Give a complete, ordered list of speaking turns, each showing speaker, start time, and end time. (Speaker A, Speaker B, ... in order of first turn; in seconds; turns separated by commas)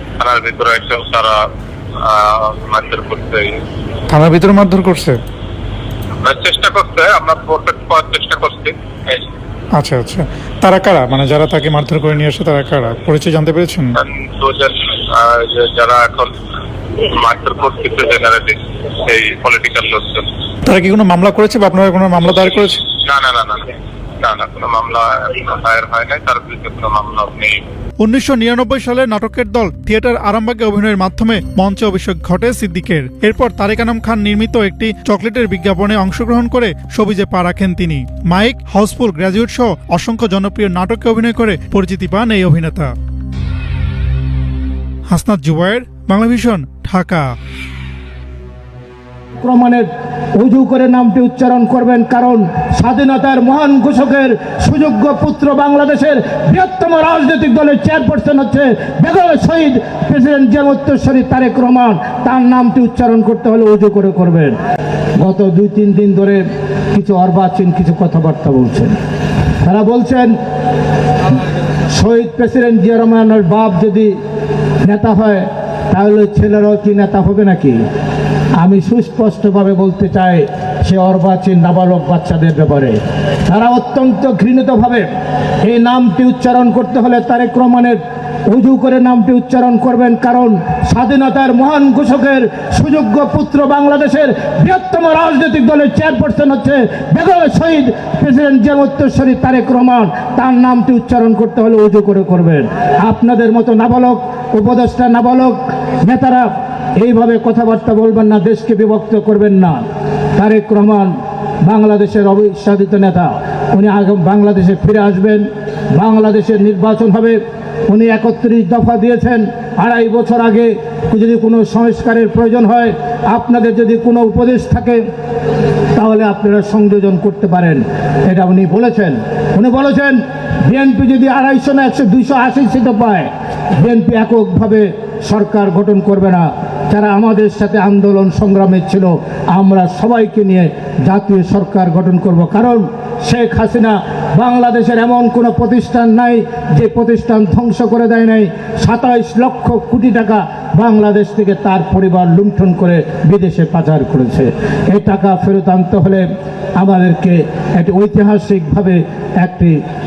Speaker A: 0.2-1.4, Speaker A: 2.0-3.6, Speaker B: 4.1-5.2, Speaker A: 6.2-9.2, Speaker B: 9.8-14.0, Speaker A: 14.0-16.3, Speaker A: 17.2-20.3, Speaker B: 20.7-22.8, Speaker A: 23.0-23.7, Speaker A: 24.2-27.6, Speaker B: 28.0-42.9, Speaker B: 45.1-47.3, Speaker C: 49.4-49.9, Speaker C: 50.4-64.6, Speaker C: 65.2-68.9, Speaker C: 69.6-70.3, Speaker C: 71.9-74.1, Speaker C: 74.8-77.8, Speaker C: 78.6-85.1, Speaker C: 85.6-109.8, Speaker C: 110.4-111.1, Speaker C: 111.7-125.0, Speaker C: 126.0-133.3, Speaker C: 133.8-156.2, Speaker C: 156.8-159.8